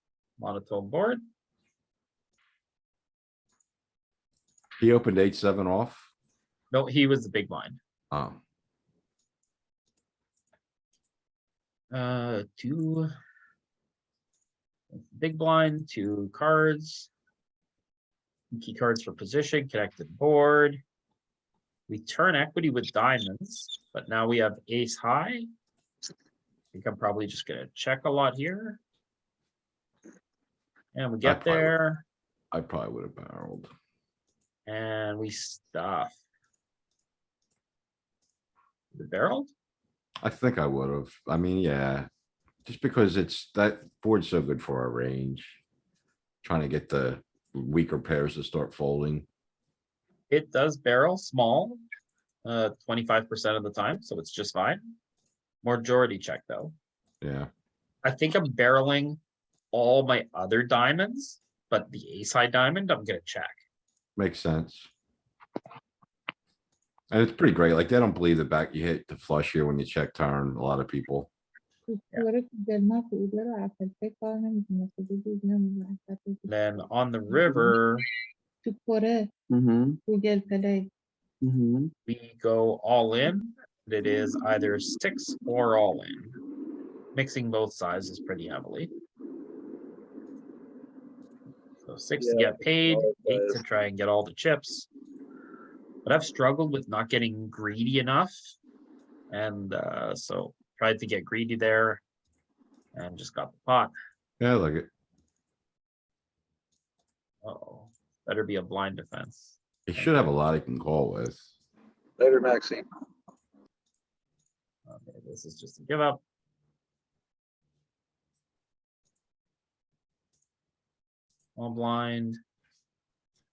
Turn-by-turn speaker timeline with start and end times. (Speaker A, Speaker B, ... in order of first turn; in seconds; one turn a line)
Speaker A: 0.4-1.2
Speaker B: 4.8-6.1
Speaker A: 6.7-7.8
Speaker B: 8.1-8.4
Speaker A: 11.9-13.1
Speaker A: 14.9-17.1
Speaker A: 18.5-20.8
Speaker A: 21.9-25.5
Speaker A: 26.7-28.8
Speaker A: 30.9-32.0
Speaker B: 31.2-31.8
Speaker B: 32.5-33.7
Speaker A: 34.7-36.2
Speaker A: 38.9-39.5
Speaker B: 40.2-42.1
Speaker B: 42.6-45.6
Speaker B: 46.4-49.3
Speaker A: 50.3-51.8
Speaker A: 52.5-55.0
Speaker A: 55.6-56.8
Speaker B: 57.2-57.5
Speaker A: 58.0-59.2
Speaker A: 59.7-63.6
Speaker B: 64.2-64.9
Speaker B: 67.1-71.3
Speaker C: 71.9-77.8
Speaker A: 76.5-78.0
Speaker C: 78.6-79.3
Speaker D: 79.5-80.0
Speaker C: 80.1-80.9
Speaker D: 81.4-81.9
Speaker A: 82.1-86.4
Speaker A: 87.1-88.9
Speaker A: 91.8-94.9
Speaker D: 92.2-93.6
Speaker A: 96.0-98.4
Speaker A: 99.3-102.0
Speaker A: 103.0-103.9
Speaker B: 104.4-104.9
Speaker A: 107.4-110.1
Speaker B: 109.9-111.4
Speaker D: 112.2-112.8
Speaker A: 114.9-116.2
Speaker A: 121.6-122.4